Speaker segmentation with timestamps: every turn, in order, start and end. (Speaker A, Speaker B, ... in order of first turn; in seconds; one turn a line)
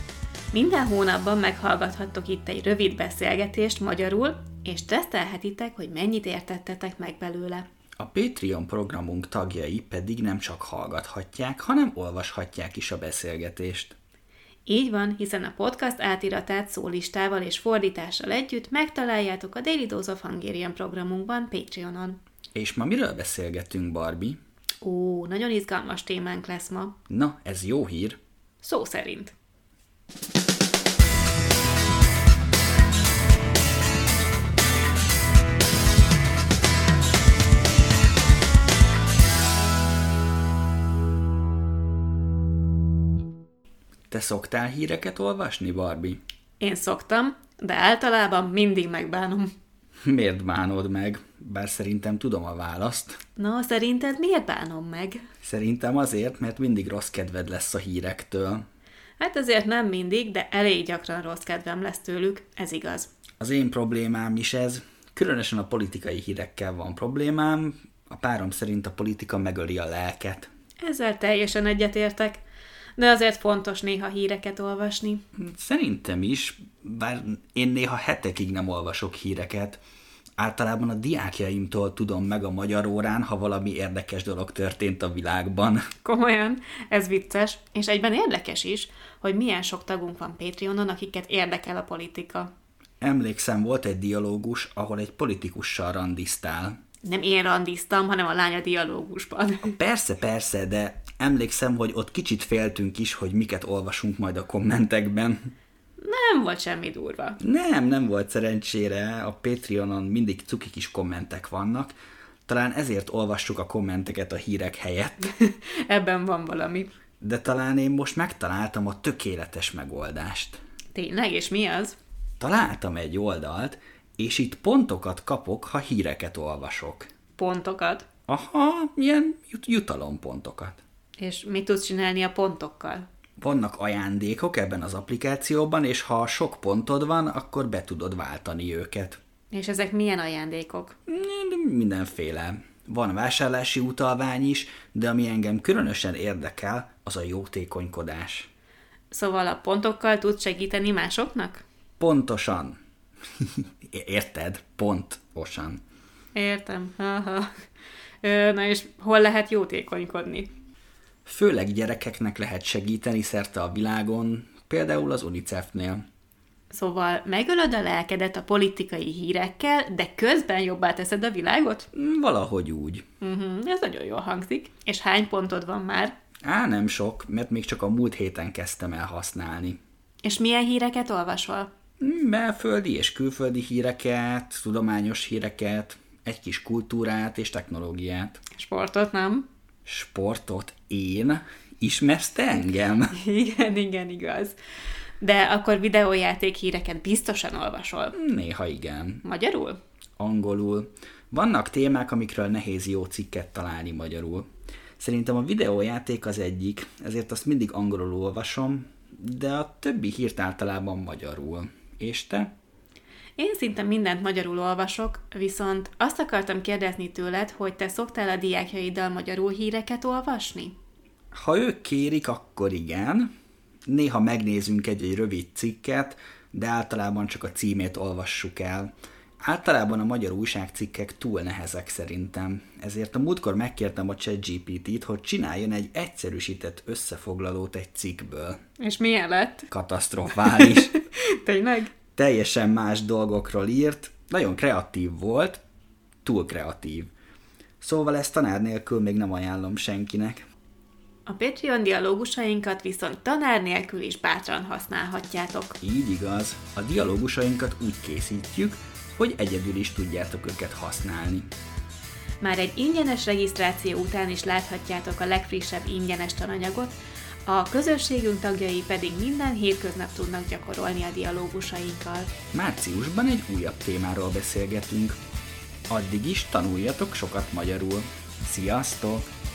Speaker A: 0.5-7.7
Speaker B: 8.0-14.0
Speaker A: 14.7-22.2
Speaker B: 22.6-24.4
Speaker A: 24.8-26.9
Speaker B: 27.1-28.2
Speaker A: 28.6-29.3
Speaker B: 44.1-46.2
Speaker A: 46.6-49.5
Speaker B: 50.0-53.2
Speaker A: 53.4-55.2
Speaker B: 55.4-58.6
Speaker A: 59.2-63.1
Speaker B: 63.4-70.5
Speaker A: 70.8-72.4
Speaker A: 73.0-75.2
Speaker B: 75.3-79.8
Speaker B: 80.4-85.9
Speaker A: 86.0-92.5
Speaker B: 93.0-96.8
Speaker A: 97.0-99.8
Speaker B: 99.7-105.5
Speaker A: 106.0-107.4
Speaker B: 107.4-111.9
Speaker B: 112.5-115.3
Speaker A: 115.2-116.9
Speaker B: 117.2-120.6
Speaker A: 121.0-122.0
Speaker B: 122.4-127.1
Speaker A: 127.4-128.1
Speaker B: 128.3-130.8
Speaker A: 131.2-133.1
Speaker B: 133.4-139.2
Speaker A: 139.5-141.0
Speaker B: 141.1-148.5
Speaker A: 149.1-151.6
Speaker B: 152.0-152.8
Speaker B: 153.4-155.8
Speaker A: 156.3-157.5
Speaker A: 158.2-160.5
Speaker B: 161.2-166.0
Speaker A: 166.7-171.9
Speaker B: 171.9-173.1
Speaker A: 173.2-176.2
Speaker B: 176.4-179.8
Speaker A: 180.2-181.7
Speaker B: 182.0-188.4
Speaker A: 188.6-189.5
Speaker B: 189.9-193.2
Speaker A: 193.1-194.6
Speaker A: 195.2-198.2
Speaker B: 198.1-199.2
Speaker A: 199.2-199.8
Speaker B: 200.2-204.5
Speaker B: 205.0-212.5
Speaker A: 213.4-220.8
Speaker B: 221.3-223.3
Speaker B: 223.9-238.6
Speaker A: 238.8-239.7
Speaker B: 239.7-240.9
Speaker A: 240.5-241.9
Speaker B: 242.2-245.6
Speaker B: 246.2-247.1
Speaker B: 247.8-250.4
Speaker A: 251.3-255.8
Speaker B: 255.8-261.5
Speaker A: 262.4-266.9
Speaker A: 267.4-272.3
Speaker B: 272.5-275.2
Speaker B: 275.9-279.3